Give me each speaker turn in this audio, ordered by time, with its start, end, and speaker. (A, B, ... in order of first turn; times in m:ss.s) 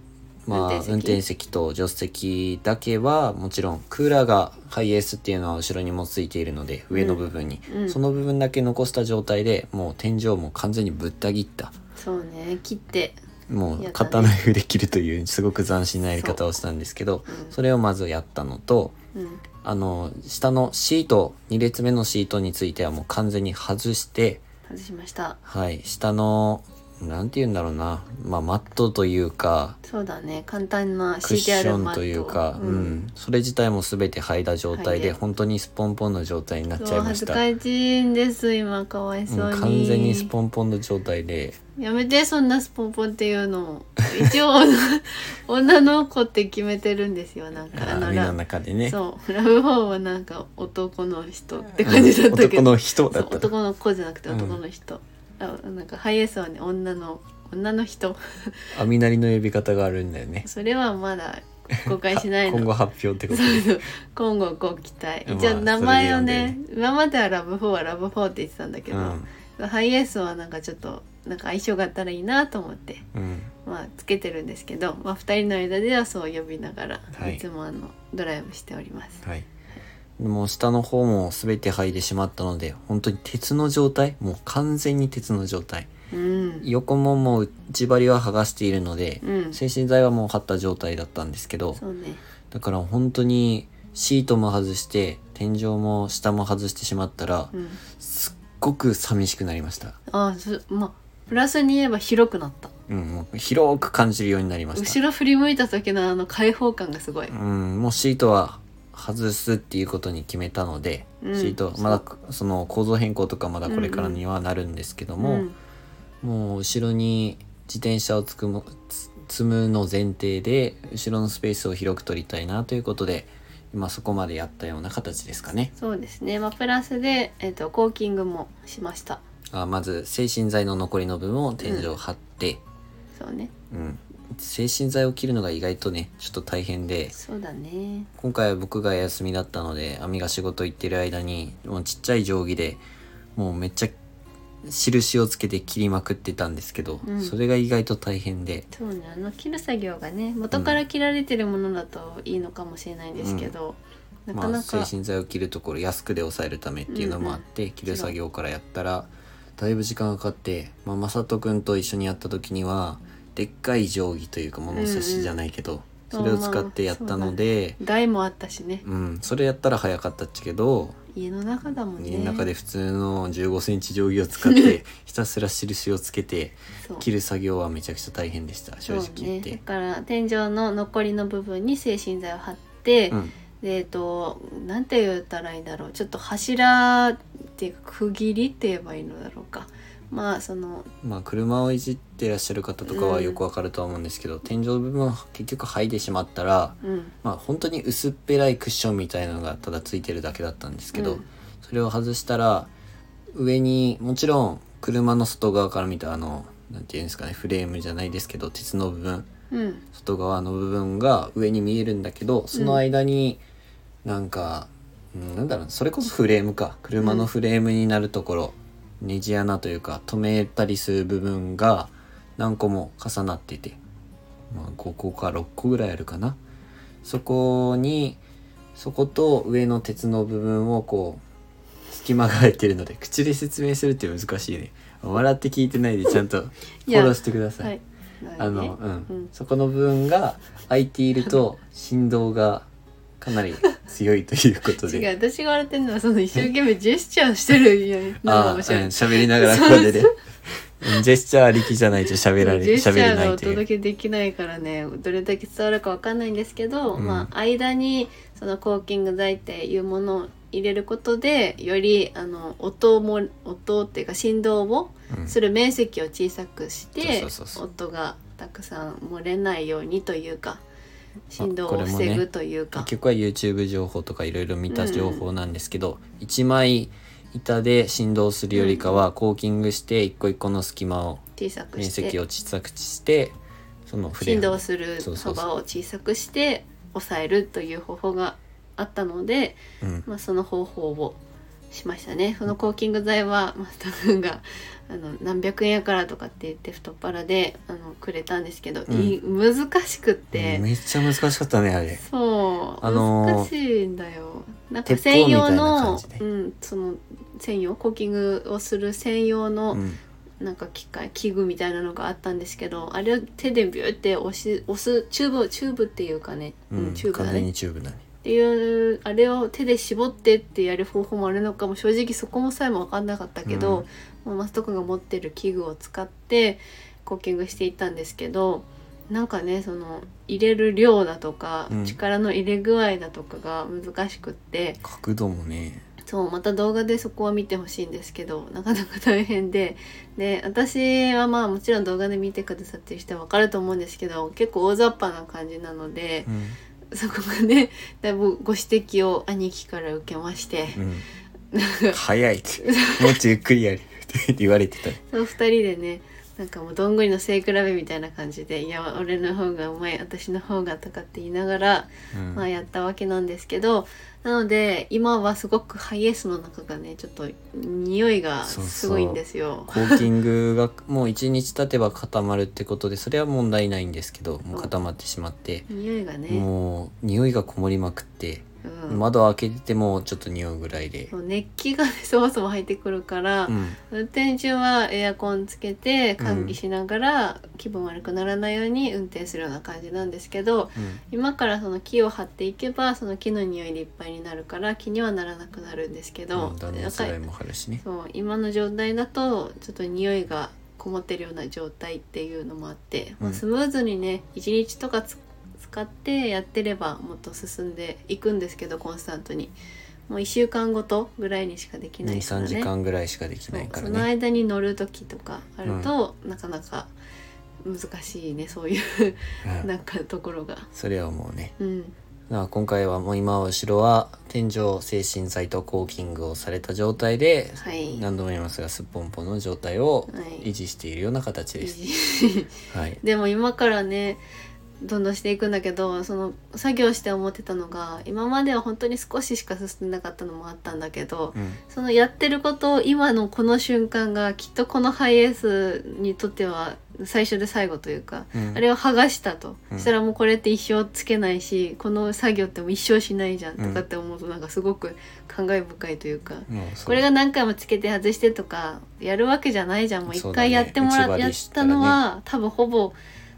0:00.4-0:11.7 A
0:00.5-0:01.2 B
0:06.9-0:08.0 B
0:12.0-0:13.2 B
0:13.5-0:18.9 A
0:13.8-0:14.3 B
0:16.2-0:16.4 B
0:17.3-0:17.6 B
0:19.1-0:19.4 B
0:19.6-0:24.4 A
0:24.7-0:25.4 B
0:25.4-0:29.8 A
0:29.8-0:33.0 B
0:31.2-0:37.4 A
0:34.7-0:35.2 B
0:36.8-0:40.3 B
0:39.3-0:41.6 A
0:41.8-0:58.7 B
0:47.7-0:49.0 A
0:51.8-0:53.5 A
0:54.3-0:54.6 A
0:58.7-1:00.5 A
1:00.4-1:02.7 B
1:01.8-1:03.8 A
1:03.3-1:13.0 B
1:05.2-1:06.6 A
1:08.9-1:09.3 A
1:13.1-1:13.5 A
1:13.6-1:19.2 B
1:17.1-1:17.4 A
1:20.2-1:25.9 A
1:26.1-1:26.7 B
1:26.6-1:31.8 A
1:29.2-1:29.6 B
1:31.8-1:32.2 B
1:32.5-1:40.0 A
1:37.5-1:37.8 B
1:40.1-1:42.7 B
1:42.9-1:45.0 A
1:44.8-1:47.3 B
1:47.3-1:55.4 A
1:51.2-1:52.0 B
1:53.6-1:54.2 B
1:55.2-1:55.6 B
1:56.2-2:05.7 A
2:05.8-2:09.2 B
2:09.5-2:12.6 A
2:11.6-2:11.9 B
2:13.1-2:13.5 B
2:13.7-2:17.1 A
2:17.1-2:18.1 B
2:18.2-2:22.8 A
2:23.4-2:23.9 A
2:24.6-2:28.7 A
2:27.0-2:27.3 B
2:28.7-2:34.9 B
2:30.5-2:30.8 A
2:33.2-2:33.5 A
2:34.3-2:47.8 A
2:36.9-2:38.2 B
2:44.7-2:45.4 B
2:46.1-2:48.8 B
2:48.8-2:51.0 A
2:51.1-2:52.5 B
2:52.0-2:59.6 A
2:58.9-3:10.9 B
3:11.0-3:22.7 A
3:12.8-3:13.4 B
3:16.8-3:17.1 B
3:20.9-3:21.2 B
3:23.3-3:29.3 A
3:29.5-3:29.8 B
3:29.9-3:33.4 A
3:32.5-3:32.8 B
3:34.0-3:43.8 A
3:37.0-3:37.3 B
3:44.5-3:46.4 A
3:47.0-3:48.2 A
3:48.8-3:51.2 A
3:51.9-3:57.7 A
3:56.9-3:59.3 B
3:58.4-4:02.7 A
4:03.2-4:05.1 A
4:04.8-4:10.1 B
4:08.2-4:10.1 A
4:10.8-4:13.6 A
4:12.4-4:30.6 B
4:17.0-4:17.3 A
4:27.0-4:27.6 A
4:31.3-4:32.9 B
4:31.4-4:41.2 A
4:34.7-4:35.2 B
4:38.5-4:39.0 B
4:41.4-4:42.2 B
4:41.8-4:43.3 A
4:43.9-4:45.4 A
4:44.2-4:51.2 B
4:49.8-4:50.0 A
4:51.7-5:00.6 B
4:58.9-4:59.2 A
5:00.3-5:02.0 A
5:02.0-5:09.8 B
5:02.8-5:03.5 A
5:04.8-5:06.2 A
5:09.7-5:10.0 A
5:10.4-5:17.5 B
5:16.7-5:18.0 A
5:18.2-5:34.8 B
5:23.4-5:23.8 A
5:31.7-5:32.0 A
5:34.8-5:35.8 A
5:36.0-5:46.3 B
5:46.3-5:46.6 A
5:46.9-5:50.8 B
5:50.7-5:51.0 A
5:51.5-5:52.0 B
5:51.9-5:55.0 A
5:52.6-5:53.2 B
5:55.0-6:10.1 B
6:02.1-6:02.4 A
6:08.4-6:15.6 A
6:15.7-6:16.5 B
6:16.3-6:21.1 A
6:18.6-6:19.0 B
6:21.1-6:37.2 B
6:23.5-6:23.8 A
6:26.2-6:26.6 A
6:30.8-6:31.0 A
6:36.3-6:37.8 A
6:37.8-6:49.5 B
6:50.1-6:52.7 B
6:52.0-6:54.1 A
6:53.5-6:56.9 B
6:55.6-6:55.9 A
6:57.6-7:00.7 B
7:00.7-7:01.5 A
7:01.6-7:01.9 B
7:02.3-7:11.8 A
7:07.6-7:08.0 B
7:10.1-7:10.5 B
7:11.6-7:14.2 B
7:12.7-7:13.0 A
7:14.8-7:43.0 B
7:28.3-7:28.6 A
7:33.6-7:33.8 A
7:36.5-7:37.0 A
7:40.1-7:42.0 A